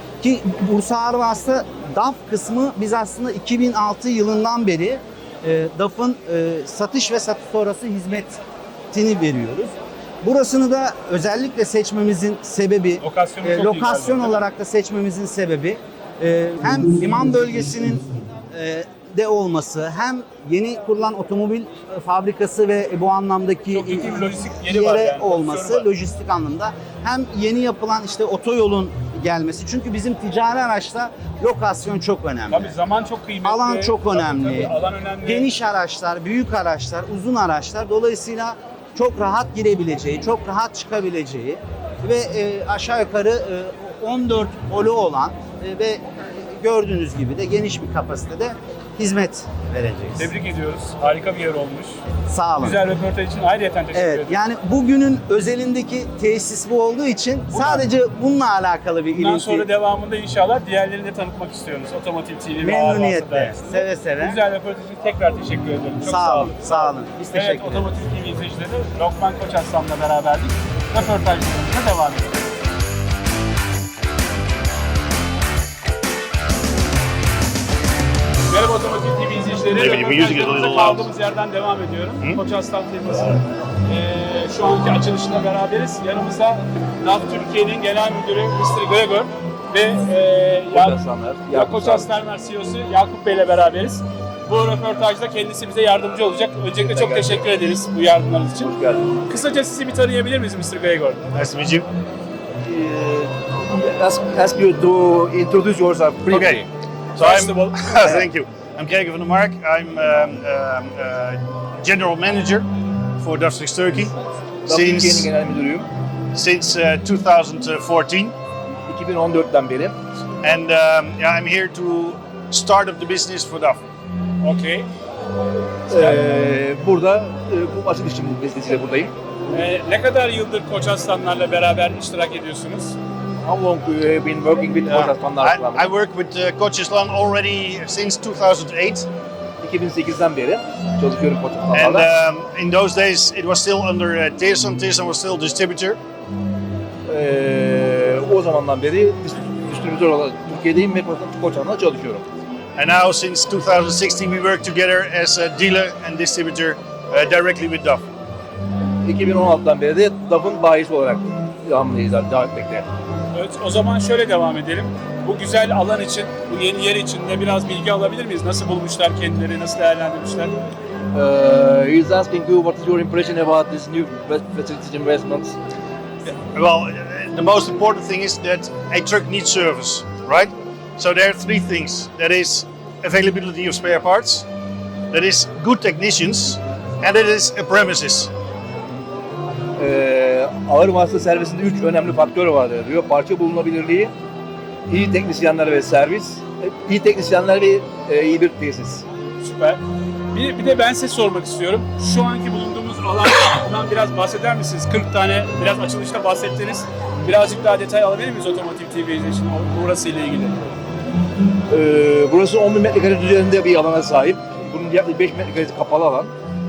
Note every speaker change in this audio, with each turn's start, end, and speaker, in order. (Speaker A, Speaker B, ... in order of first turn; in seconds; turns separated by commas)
Speaker A: 0.2-8.4, Speaker A: 8.9-32.7, Speaker B: 13.0-14.4, Speaker B: 23.7-25.9, Speaker B: 32.5-35.5, Speaker A: 33.4-50.3, Speaker B: 50.1-52.0, Speaker A: 52.2-52.8, Speaker B: 52.6-54.3, Speaker A: 53.9-59.7, Speaker B: 57.5-57.8, Speaker B: 59.1-72.4, Speaker A: 62.6-64.4, Speaker A: 66.0-67.9, Speaker B: 78.5-91.0, Speaker C: 79.7-81.1, Speaker D: 90.7-92.1, Speaker B: 91.5-101.2, Speaker D: 96.8-97.5, Speaker D: 98.6-99.2, Speaker C: 101.3-101.9, Speaker D: 102.6-106.6, Speaker C: 106.3-112.7, Speaker B: 107.2-108.2, Speaker C: 113.2-114.1, Speaker D: 114.7-115.9, Speaker C: 114.7-115.3, Speaker C: 116.3-118.3, Speaker D: 118.9-120.0, Speaker C: 120.4-123.8, Speaker B: 124.4-124.9, Speaker D: 125.9-129.1, Speaker B: 129.5-132.9, Speaker D: 133.4-135.9, Speaker C: 134.9-139.1, Speaker D: 139.6-142.1, Speaker C: 141.7-146.0, Speaker D: 147.1-152.3, Speaker C: 152.8-158.0, Speaker D: 159.0-162.9, Speaker B: 163.3-170.6, Speaker D: 171.1-175.6, Speaker C: 176.3-184.4, Speaker C: 185.1-188.3, Speaker D: 189.8-194.1, Speaker D: 194.9-199.0, Speaker B: 199.4-199.8, Speaker B: 200.3-210.6, Speaker D: 211.7-216.3